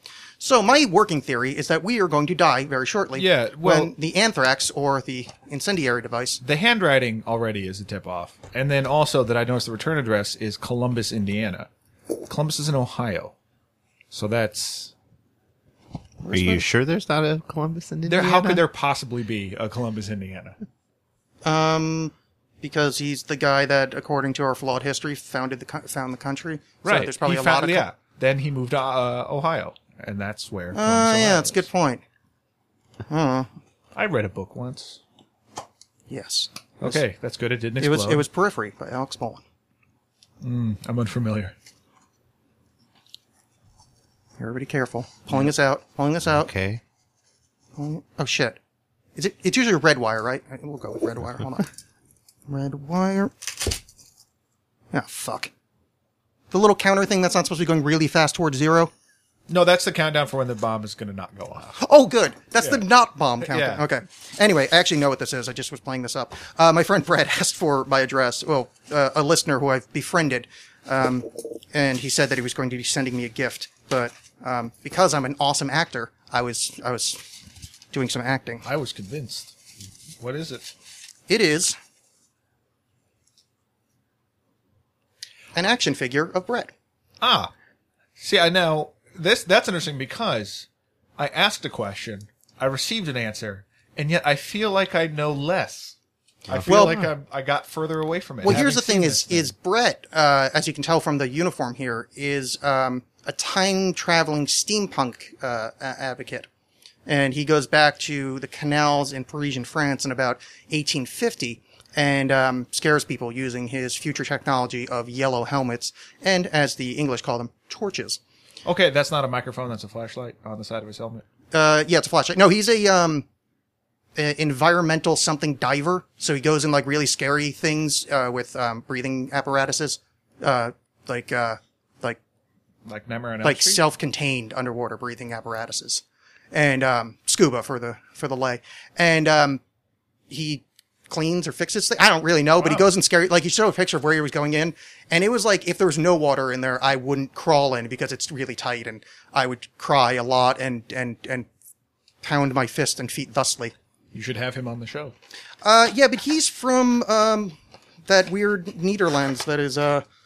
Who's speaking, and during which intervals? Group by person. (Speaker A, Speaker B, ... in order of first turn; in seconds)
Speaker A: 0.4-6.4, 16.2-16.6, 21.4-27.9, 30.7-32.0, 33.1-33.5, 36.1-37.0, 37.8-39.4, 44.4-46.5, 47.8-48.6, 49.1-51.7, 52.5-53.7, 54.9-55.5, 56.5-58.9, 61.8-77.2, 77.9-78.6, 81.3-81.8, 85.5-86.7, 96.7-97.1, 98.4-106.5, 107.0-118.2, 121.5-123.2, 124.2-132.2, 133.4-139.6, 140.3-151.5, 152.2-153.7, 155.6-157.6, 158.1-160.0
Speaker B: 3.1-3.9, 6.4-11.7, 12.3-13.3, 14.1-14.9, 18.0-20.6, 26.8-31.7, 33.9-35.0, 36.8-38.2, 40.4-41.5, 59.5-61.8, 63.4-63.8, 78.6-79.5, 80.2-80.7, 87.2-87.5, 88.2-90.7, 91.2-96.0, 96.5-99.5, 118.6-121.2, 132.8-133.8, 142.6-142.9, 154.1-155.1
Speaker C: 16.3-18.6, 46.2-46.8, 96.5-96.9